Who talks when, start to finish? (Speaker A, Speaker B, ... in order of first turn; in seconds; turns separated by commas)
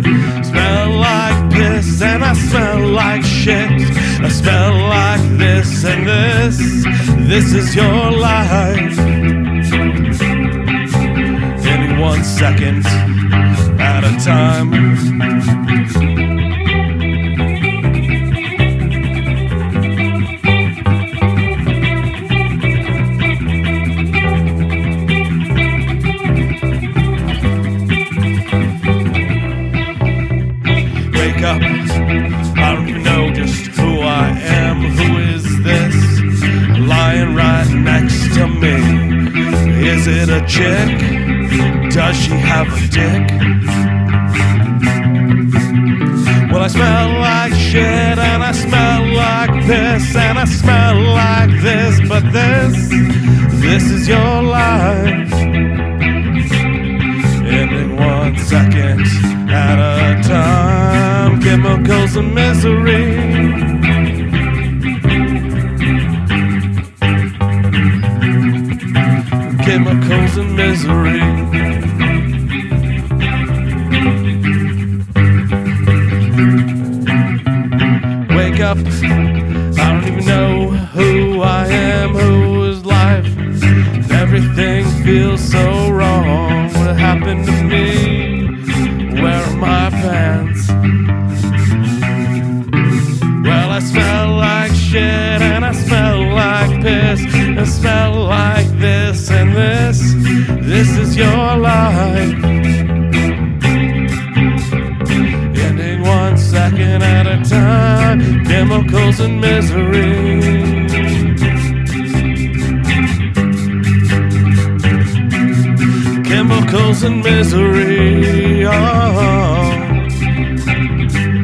Speaker A: 0.4-9.0, Speaker A: 11.6-13.0, Speaker A: 13.8-15.1, Speaker A: 31.1-32.0, Speaker A: 32.5-43.4, Speaker A: 46.5-55.4, Speaker A: 57.4-63.7, Speaker A: 69.5-71.6, Speaker A: 78.3-79.2, Speaker A: 79.7-83.4, Speaker A: 84.0-88.5, Speaker A: 89.0-90.8, Speaker A: 93.4-102.4, Speaker A: 105.5-111.1, Speaker A: 116.2-120.0